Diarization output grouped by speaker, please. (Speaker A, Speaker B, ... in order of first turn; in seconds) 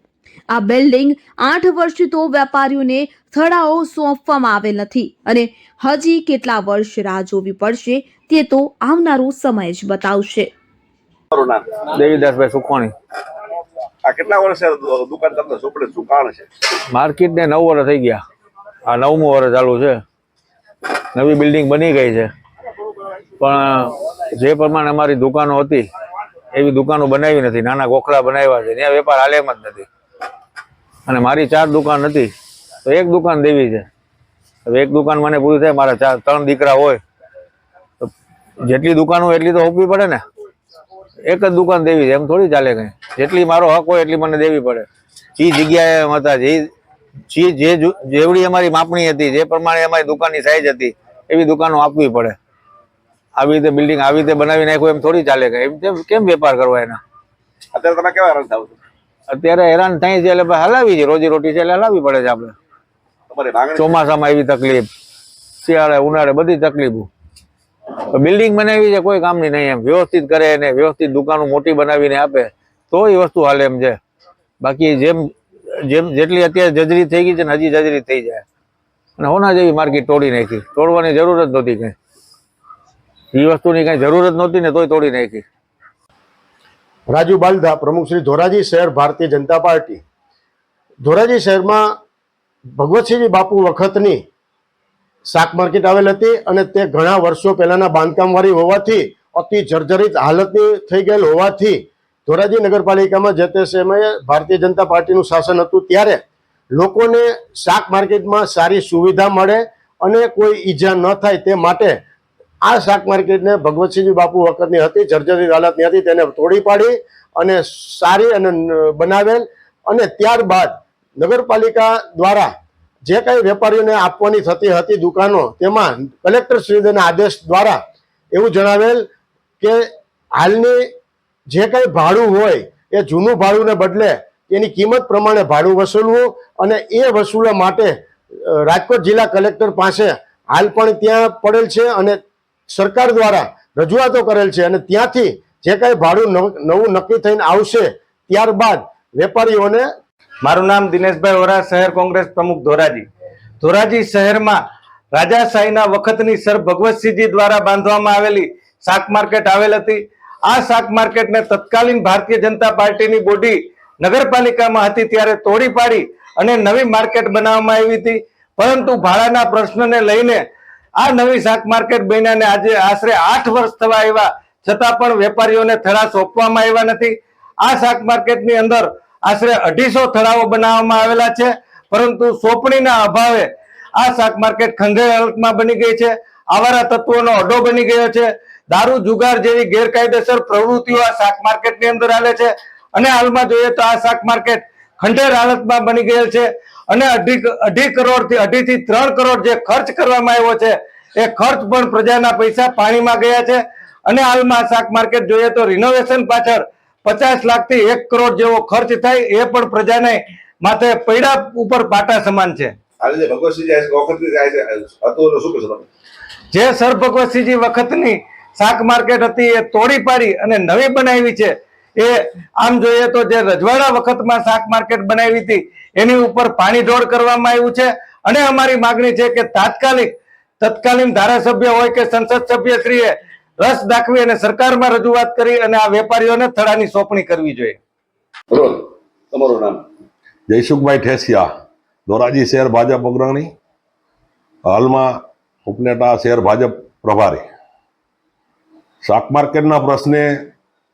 Speaker A: 0.5-10.5
Speaker B: 11.3-11.6, 14.1-16.5, 57.7-58.8, 63.3-64.0, 213.0-215.9, 238.5-239.8
Speaker C: 11.9-12.9, 16.9-18.2, 18.9-20.0, 21.1-22.3, 23.4-25.9, 26.5-29.9, 31.1-32.3, 32.9-33.9, 34.7-37.0, 38.7-40.2, 41.3-46.7, 47.3-52.4, 53.4-57.0, 59.3-62.5, 63.8-64.9, 65.6-67.1, 68.1-74.0, 74.6-75.3, 75.9-78.4, 79.2-82.0, 83.3-85.5
Speaker D: 87.1-90.0, 91.0-91.9, 92.8-94.2, 95.3-106.2, 106.7-112.0, 112.6-122.5, 123.0-127.8, 128.3-129.1, 130.4-130.8, 131.5-137.9, 138.5-149.9
Speaker E: 150.4-153.1, 153.6-154.6, 155.1-170.4, 171.0-212.8, 216.5-237.8
Speaker F: 240.5-241.5, 242.1-243.5, 244.7-247.4, 249.0-250.5